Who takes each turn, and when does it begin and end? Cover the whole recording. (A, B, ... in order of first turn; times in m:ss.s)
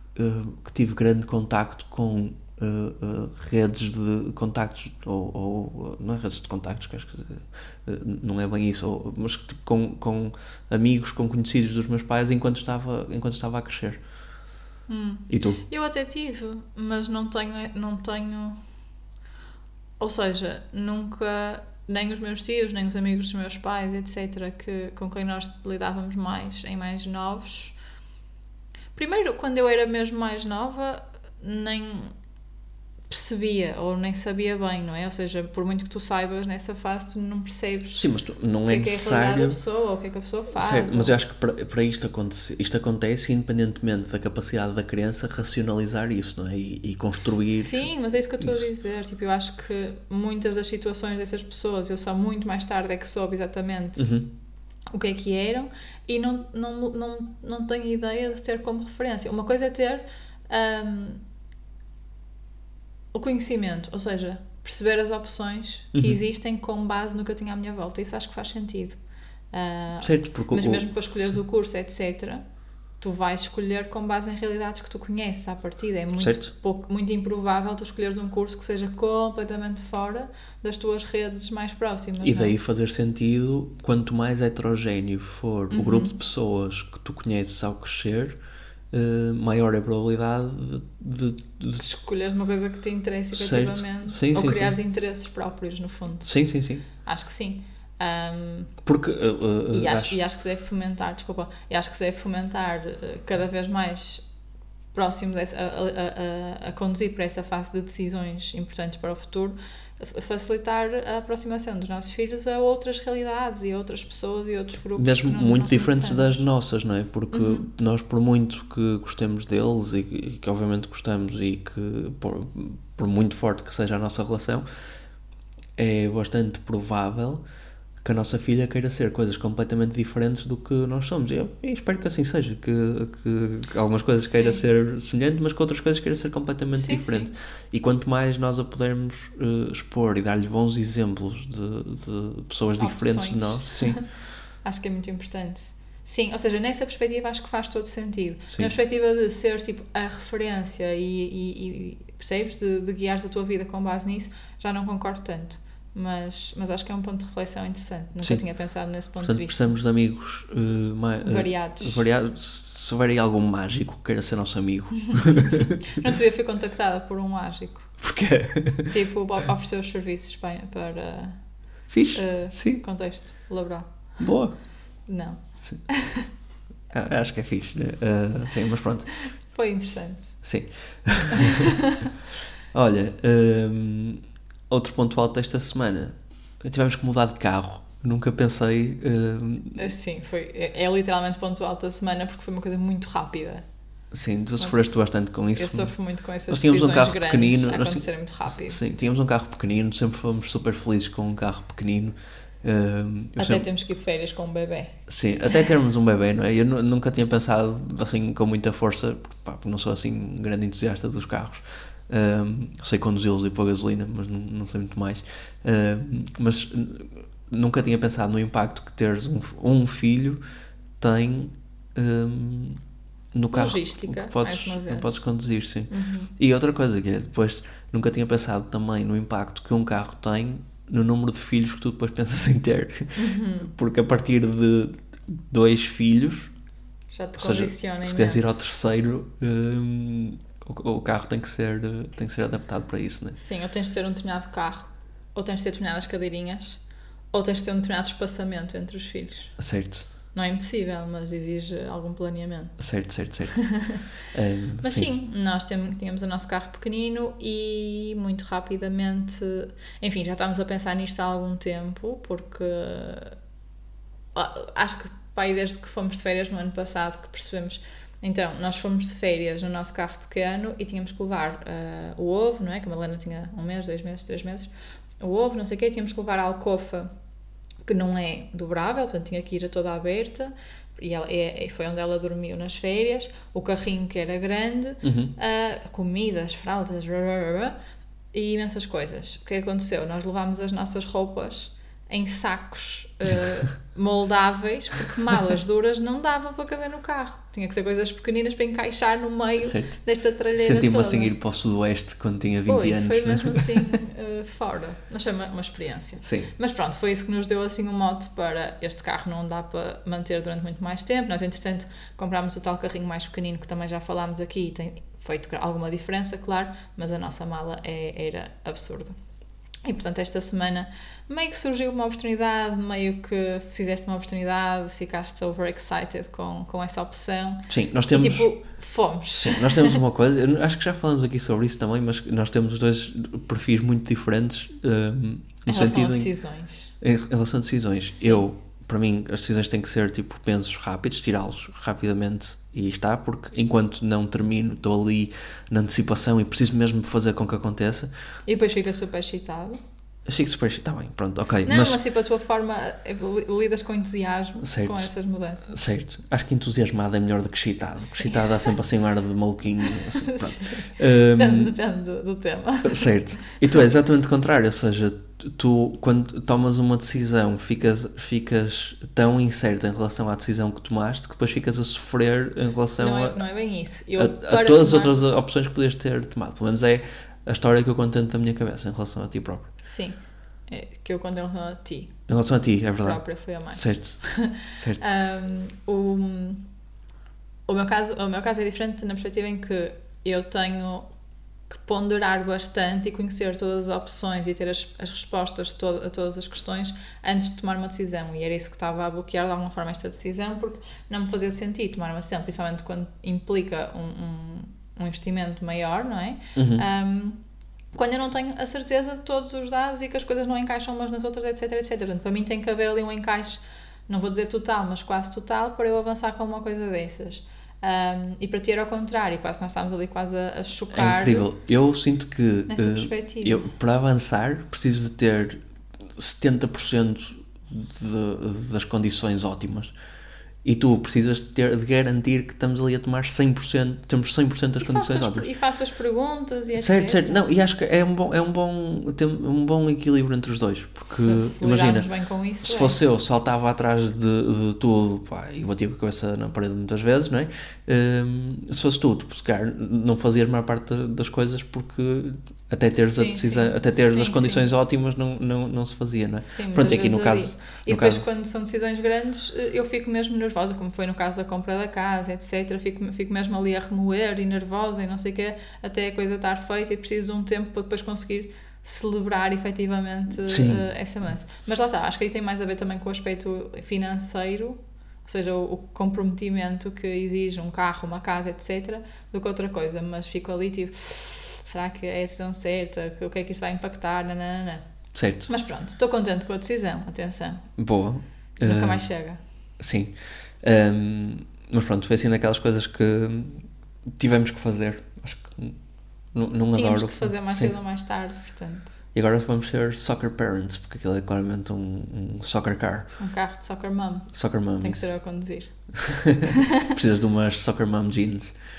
0:00.2-0:14.0 A
0:14.9-0:18.6 B
0:15.3-0:15.6 A
0:20.0-0:27.8 B
0:29.0-0:32.1 B
0:33.1-0:38.0 B
0:37.9-0:39.6 A
0:38.7-0:41.1 B
0:40.5-0:48.7 A
0:47.5-0:54.2 B
0:54.0-0:54.3 A
0:54.9-1:01.2 B
1:03.1-1:09.0 B
1:09.5-1:12.4 B
1:10.0-1:11.4 A
1:13.0-1:22.6 B
1:16.2-1:16.5 A
1:22.2-1:28.4 A
1:25.7-1:26.2 B
1:28.9-1:31.8 A
1:31.8-1:36.3 B
1:33.3-1:34.8 A
1:36.2-1:36.8 A
1:36.8-1:38.8 B
1:38.8-1:40.2 A
1:39.7-1:44.3 B
1:44.9-1:56.4 B
1:55.0-2:04.6 A
1:57.3-1:57.7 B
2:05.8-2:07.4 A
2:08.0-2:24.0 A
2:14.2-2:14.6 B
2:16.7-2:17.3 B
2:22.8-2:39.8 B
2:38.2-2:45.7 A
2:41.2-2:42.0 B
2:45.8-2:48.2 B
2:48.0-2:48.9 A
2:48.7-2:54.4 B
2:51.9-2:52.8 A
2:54.2-2:54.7 A
2:55.1-2:56.3 B
2:55.6-2:55.9 A
2:56.9-2:59.3 A
2:59.2-3:00.4 B
3:00.4-3:01.6 A
3:02.7-3:09.8 A
3:09.8-3:13.6 B
3:14.1-3:23.7 A
3:15.5-3:18.8 B
3:23.4-3:25.1 B
3:25.1-3:40.4 A
3:41.0-3:42.8 A
3:43.3-3:56.5 A
3:43.5-3:45.2 B
3:45.9-3:46.3 B
3:53.2-3:53.7 B
3:57.1-3:58.6 B
3:57.4-4:03.4 A
4:03.4-4:09.6 B
4:09.6-4:10.1 A
4:10.3-4:12.9 B
4:12.8-4:15.1 A
4:13.6-4:14.0 B
4:14.8-4:23.4 B
4:24.4-4:37.1 B
4:37.9-4:47.8 B
4:45.0-4:45.3 A
4:48.3-5:01.3 B
4:59.6-5:03.8 A
5:02.7-5:19.2 B
5:06.2-5:06.5 A
5:19.8-5:30.0 B
5:27.7-5:28.5 A
5:29.4-5:36.3 A
5:35.7-5:36.9 B
5:37.0-5:48.1 A
5:38.2-5:38.4 B
5:48.4-5:49.8 B
5:50.3-5:52.0 A
5:51.6-5:55.8 B
5:54.6-5:55.1 A
5:55.6-6:01.7 A
5:58.2-5:58.5 B
6:00.2-6:03.2 B
6:02.8-6:13.4 A
6:13.0-6:15.1 B
6:14.2-6:19.7 A
6:19.8-6:22.2 B
6:22.3-6:25.1 A
6:23.0-6:26.7 B
6:27.7-6:31.1 B
6:31.7-6:47.4 B
6:46.6-6:46.8 A
6:47.9-7:01.5 B
7:00.9-7:05.6 A
7:02.7-7:03.7 B
7:06.1-7:09.9 A
7:10.6-7:15.5 A
7:14.8-7:17.4 B
7:16.8-7:38.3 A
7:21.0-7:23.0 B
7:33.0-7:34.7 B
7:36.4-8:07.8 B
7:50.5-7:50.9 A
8:05.1-8:05.5 A
8:07.8-8:09.1 A
8:08.6-8:09.4 B
8:09.8-8:17.8 A
8:16.7-8:19.0 B
8:19.1-8:23.2 A
8:23.2-8:26.4 B
8:24.3-8:25.2 A
8:26.0-8:28.7 A